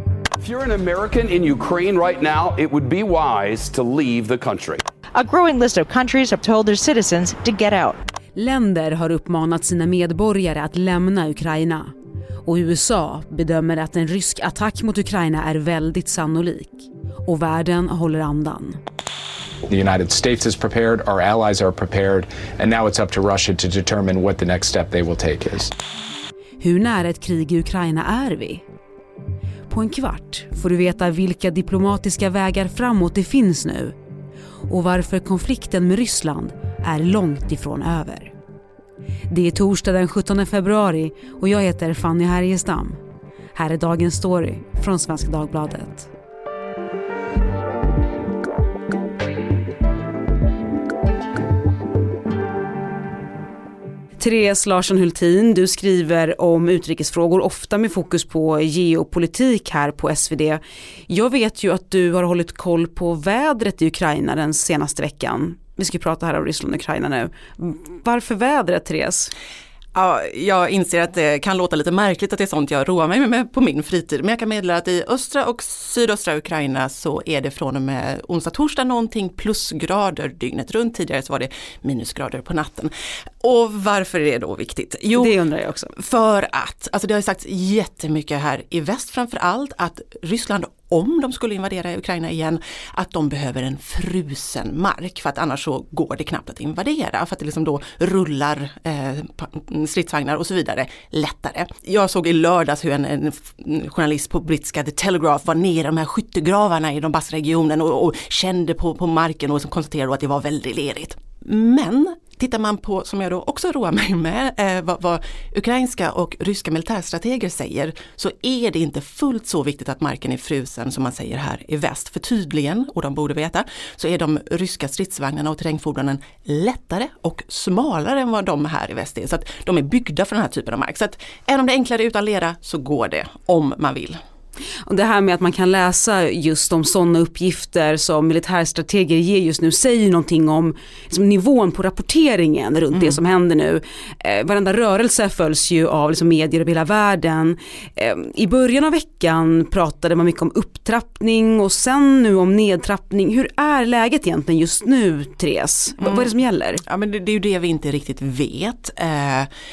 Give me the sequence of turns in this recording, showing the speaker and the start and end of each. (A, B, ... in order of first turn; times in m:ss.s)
0:00.4-0:04.9 A
0:05.1-0:08.0 B
0:08.4-0:11.9 C
0:12.4-0:18.8 C
0:19.7-0:25.7 D
0:26.6-0:28.6 C
0:29.7-0:34.0 C
0:34.7-0:38.3 C
0:39.3-0:43.0 C
0:43.5-0:46.1 C
0:54.2-1:09.3 C
1:09.9-1:22.9 E
1:23.4-1:25.3 E
1:25.1-1:25.9 C
1:26.0-2:14.2 E
2:14.9-2:36.8 C
2:36.8-2:39.5 E